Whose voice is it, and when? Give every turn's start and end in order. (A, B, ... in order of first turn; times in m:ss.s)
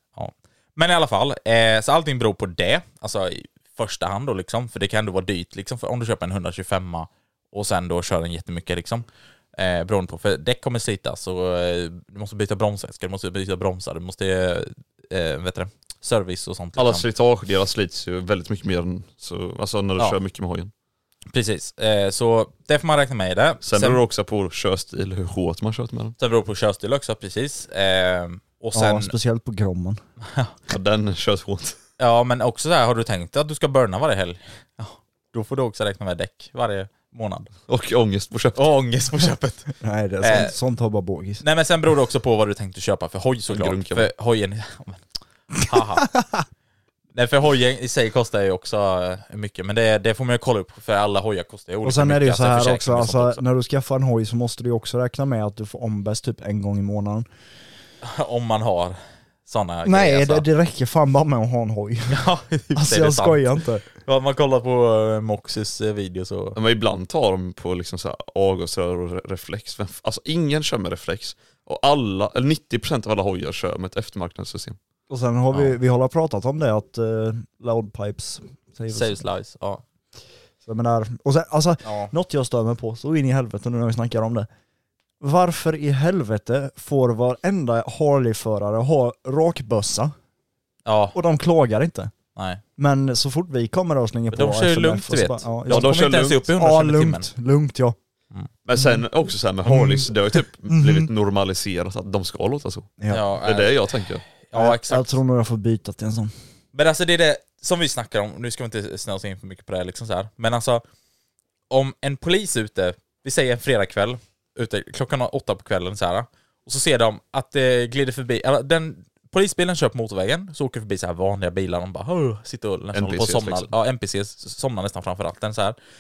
0:00.1-0:17.0 A
0:16.8-0:20.7 B
0:21.3-0:24.0 A
0:23.6-0:26.2 B
0:26.2-0:29.1 A
0:28.7-0:30.0 C
0:30.2-0:30.5 A
0:30.7-0:31.8 B
0:32.0-0:37.5 A
0:37.7-0:38.6 B
0:38.5-0:40.5 A
0:39.8-0:41.4 C
0:41.4-0:45.0 A
0:43.5-0:44.1 B
0:45.6-0:46.1 A
0:47.1-0:53.4 A
0:51.8-0:57.2 C
0:58.0-1:00.5 A
0:59.8-1:03.9 C
1:02.1-1:06.6 A
1:06.6-1:14.8 B
1:15.1-1:19.2 C
1:15.5-1:15.8 A
1:18.9-1:19.8 A
1:20.6-1:24.5 C
1:21.8-1:22.1 A
1:25.2-1:30.1 C
1:30.8-1:31.2 A
1:31.1-1:32.1 C
1:32.4-1:32.6 A
1:32.8-1:37.9 C
1:34.3-1:37.3 A
1:35.6-1:36.4 B
1:38.6-1:42.9 B
1:39.6-1:41.1 C
1:43.0-1:43.2 C
1:43.1-1:45.2 A
1:43.4-1:44.2 B
1:44.5-1:46.3 C
1:46.7-1:50.8 A
1:51.7-2:05.8 A
2:02.9-2:03.7 B